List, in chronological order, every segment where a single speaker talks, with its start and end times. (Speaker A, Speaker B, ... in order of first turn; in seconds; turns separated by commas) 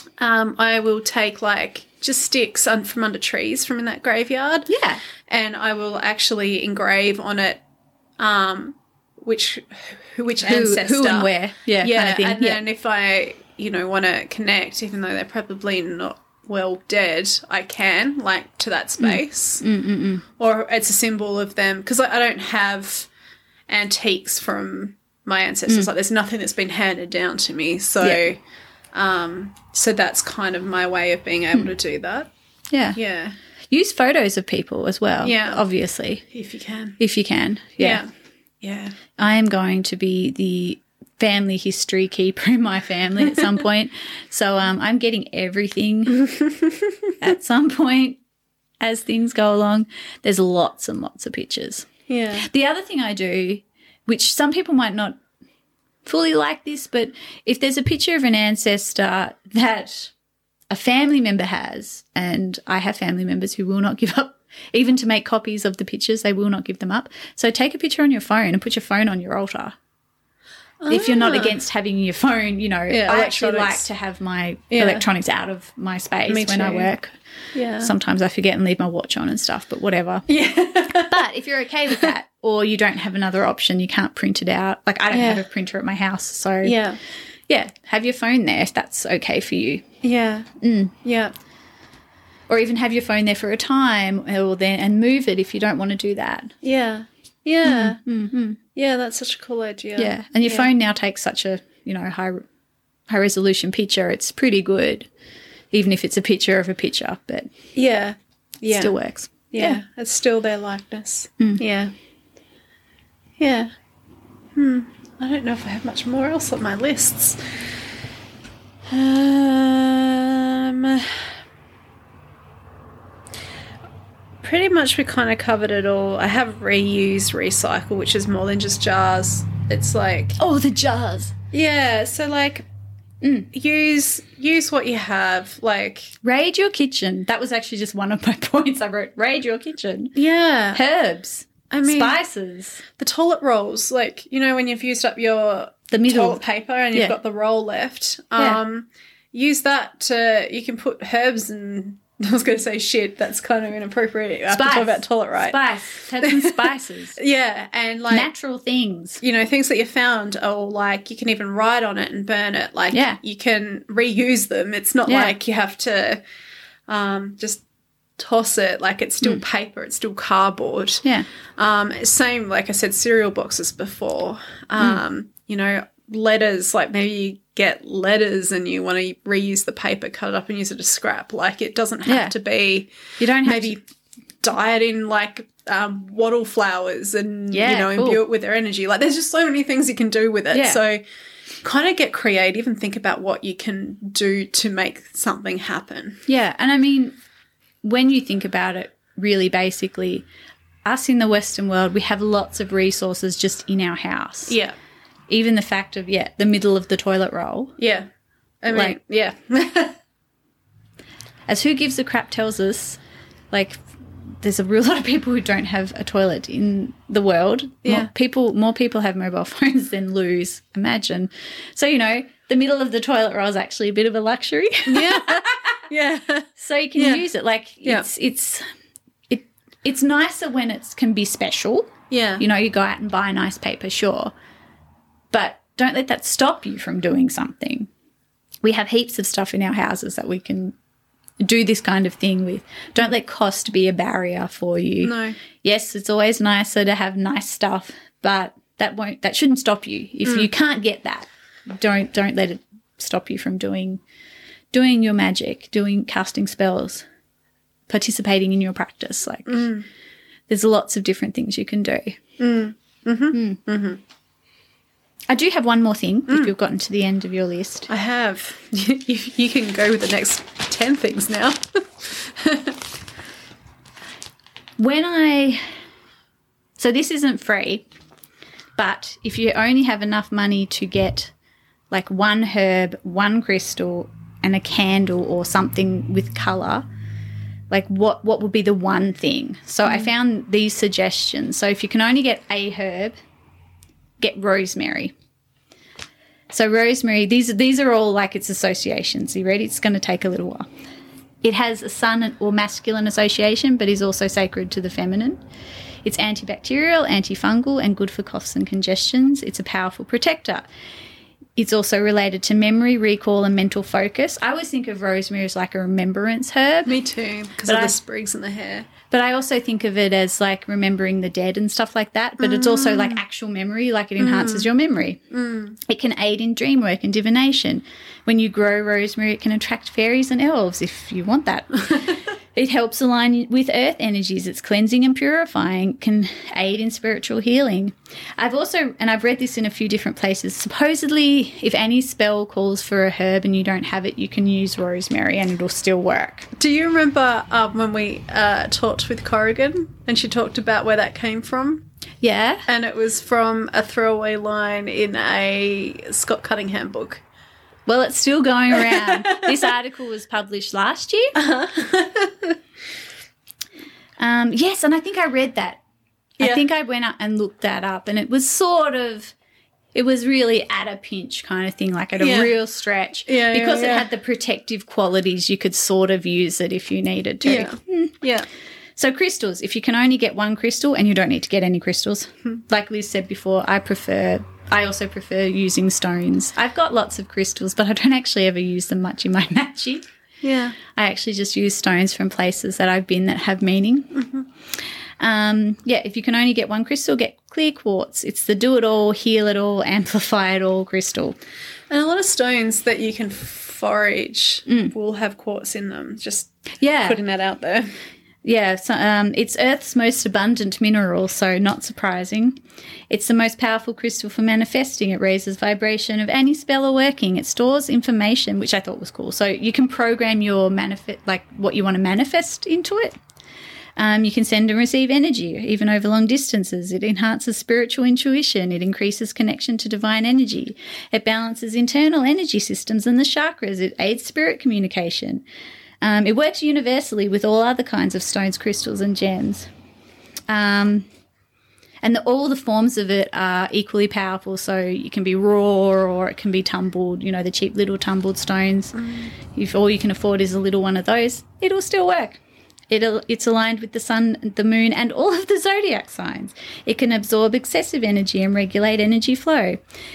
Speaker A: 0.2-4.8, Speaker B: 4.7-5.0, Speaker A: 5.3-7.6, Speaker A: 8.2-11.3, Speaker B: 10.4-12.6, Speaker A: 11.8-19.6, Speaker B: 19.0-20.2, Speaker A: 20.4-23.1, Speaker A: 23.7-28.4, Speaker A: 28.9-32.3, Speaker B: 32.7-33.0, Speaker A: 32.9-33.4, Speaker B: 33.7-36.2, Speaker A: 35.2-35.6, Speaker A: 36.3-37.0, Speaker B: 37.0-38.0, Speaker A: 37.8-38.1, Speaker A: 38.6-39.0, Speaker B: 39.2-46.3, Speaker B: 47.2-48.2, Speaker B: 48.8-55.2, Speaker A: 52.1-52.5, Speaker B: 56.0-60.1, Speaker B: 60.7-69.8, Speaker A: 70.8-71.6, Speaker B: 70.9-77.1, Speaker A: 72.9-73.9, Speaker A: 74.7-75.0, Speaker A: 76.3-76.9, Speaker A: 77.5-77.9, Speaker B: 77.8-80.3, Speaker A: 80.3-81.2, Speaker B: 80.9-86.8, Speaker A: 85.1-85.4, Speaker A: 86.6-87.0, Speaker B: 87.5-89.8, Speaker A: 90.0-90.5, Speaker B: 90.6-90.9, Speaker A: 91.0-91.3, Speaker B: 92.5-96.5, Speaker A: 96.6-98.0, Speaker B: 97.6-98.6, Speaker A: 98.7-100.7, Speaker B: 100.0-102.5, Speaker B: 103.1-105.1, Speaker B: 105.7-107.5, Speaker A: 107.7-108.9, Speaker B: 108.7-109.8, Speaker A: 109.5-111.9, Speaker A: 113.4-113.7, Speaker A: 114.5-117.4, Speaker A: 118.9-121.3, Speaker A: 124.4-130.4, Speaker B: 130.4-131.3, Speaker A: 131.5-132.7, Speaker B: 133.2-133.5, Speaker A: 133.5-136.1, Speaker B: 136.2-140.2, Speaker A: 140.2-140.8, Speaker B: 140.7-142.8, Speaker A: 141.7-142.2, Speaker A: 143.0-155.6, Speaker B: 145.9-146.4, Speaker B: 154.5-157.2, Speaker A: 156.2-158.3, Speaker B: 158.1-159.2, Speaker A: 159.2-166.2, Speaker B: 162.9-163.2, Speaker B: 165.1-165.3, Speaker A: 166.9-167.6, Speaker A: 168.2-171.0, Speaker A: 171.6-182.9, Speaker B: 182.1-182.3, Speaker B: 183.2-183.8, Speaker A: 183.4-183.8, Speaker A: 184.4-191.0, Speaker B: 187.5-188.2, Speaker B: 190.5-190.8, Speaker A: 191.6-196.2, Speaker B: 196.3-197.2, Speaker B: 197.8-200.3, Speaker B: 200.8-204.6, Speaker A: 204.5-204.7, Speaker B: 205.3-207.7, Speaker A: 207.8-208.1, Speaker A: 208.6-210.0, Speaker B: 208.7-209.0, Speaker B: 211.5-213.0, Speaker B: 213.5-213.9, Speaker B: 214.4-225.4, Speaker A: 217.8-218.1, Speaker A: 224.9-227.2, Speaker B: 226.6-228.6, Speaker B: 229.3-234.3, Speaker A: 232.1-232.4, Speaker B: 235.3-237.9, Speaker B: 238.6-240.7, Speaker B: 241.4-254.0, Speaker A: 245.0-245.4, Speaker B: 254.7-257.1, Speaker B: 257.9-259.7, Speaker A: 259.5-259.9, Speaker B: 260.5-262.2, Speaker A: 262.4-264.0, Speaker B: 265.3-267.9, Speaker A: 267.9-272.8, Speaker B: 274.8-275.6, Speaker B: 276.8-277.9, Speaker B: 278.8-281.3, Speaker B: 281.9-286.9, Speaker B: 287.7-293.1, Speaker B: 294.2-295.1, Speaker B: 296.5-300.7, Speaker B: 301.4-305.4, Speaker B: 306.0-310.7, Speaker B: 311.6-317.0, Speaker A: 316.9-318.9, Speaker B: 317.7-317.9, Speaker B: 319.1-325.2, Speaker A: 322.4-323.2, Speaker A: 324.2-324.7, Speaker A: 325.3-325.8, Speaker B: 325.8-346.5, Speaker A: 346.6-351.8, Speaker B: 352.2-352.6, Speaker A: 352.7-357.2, Speaker B: 357.9-361.4, Speaker A: 358.7-359.5, Speaker A: 361.3-362.6, Speaker B: 364.2-365.8, Speaker B: 366.4-369.3, Speaker B: 369.9-378.1, Speaker A: 372.2-372.5, Speaker A: 373.3-374.1, Speaker A: 377.4-378.5, Speaker B: 378.9-390.1, Speaker A: 390.4-390.8, Speaker B: 390.8-394.2, Speaker A: 394.1-394.4, Speaker B: 395.2-401.4, Speaker A: 401.9-407.9, Speaker B: 404.7-404.9, Speaker B: 406.8-407.2, Speaker B: 408.4-412.6, Speaker B: 413.1-423.2, Speaker B: 424.0-435.4, Speaker B: 436.0-439.7, Speaker B: 440.5-441.1, Speaker B: 442.0-449.0, Speaker A: 448.9-449.3, Speaker B: 449.5-459.8